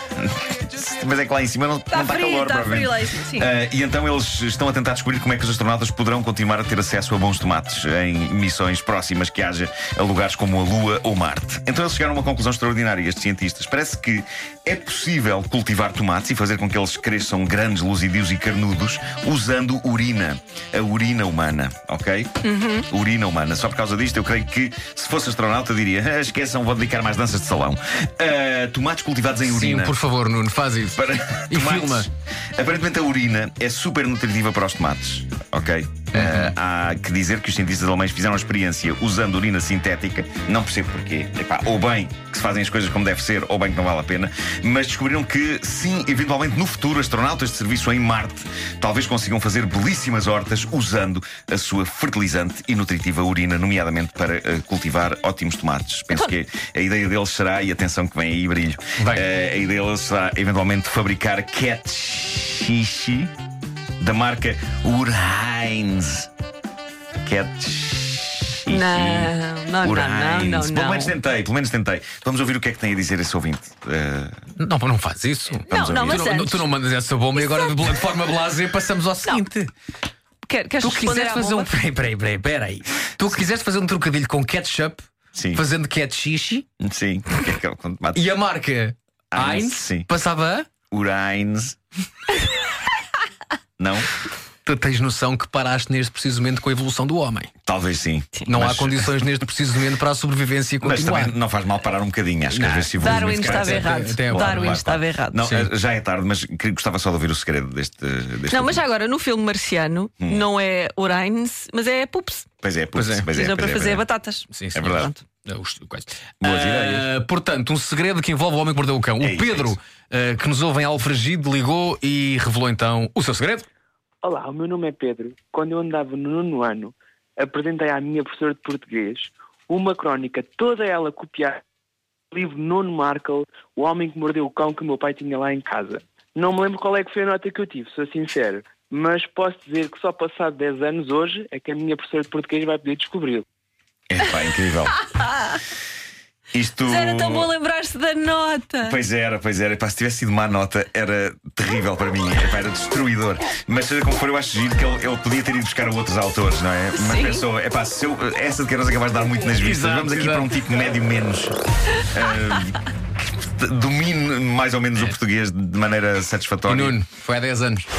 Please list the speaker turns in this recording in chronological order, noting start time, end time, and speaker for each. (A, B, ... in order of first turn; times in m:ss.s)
0:00.1-0:30.0 A
0:01.9-0:03.5 B
0:22.4-0:22.9 B
0:29.4-0:32.1 C
0:30.9-1:03.3 A
0:36.1-0:36.5 C
0:59.0-0:59.2 C
1:04.0-1:06.3 A
1:07.2-1:14.4 A
1:08.7-1:11.1 B
1:14.6-1:19.7 C
1:15.7-1:16.3 A
1:15.7-1:16.6 B
1:17.4-1:17.8 B
1:20.4-1:21.7 B
1:20.8-1:26.6 C
1:25.3-1:25.6 A
1:26.8-1:28.4 A
1:28.1-1:30.7 C
1:29.3-1:30.1 A
1:30.9-1:31.8 A
1:33.8-1:34.1 A
1:34.6-1:37.5 C
1:37.6-1:39.1 A
1:38.5-1:41.3 C
1:40.8-1:48.8 A
1:42.5-1:44.8 C
1:43.0-1:45.4 B
1:48.5-1:52.5 B
1:52.6-1:54.0 A
1:52.9-1:53.3 C
1:53.3-1:55.2 B
1:54.5-2:03.6 C
1:54.7-1:55.1 A
1:56.4-1:57.1 A
1:59.2-1:59.8 A
2:04.2-2:11.6 D
2:12.3-2:23.4 D
2:24.1-2:25.0 A
2:26.5-2:27.5 A
2:26.8-2:29.0 B
2:28.8-2:47.0 A
2:36.9-2:37.4 B
2:39.5-2:40.5 C
2:46.7-2:47.8 C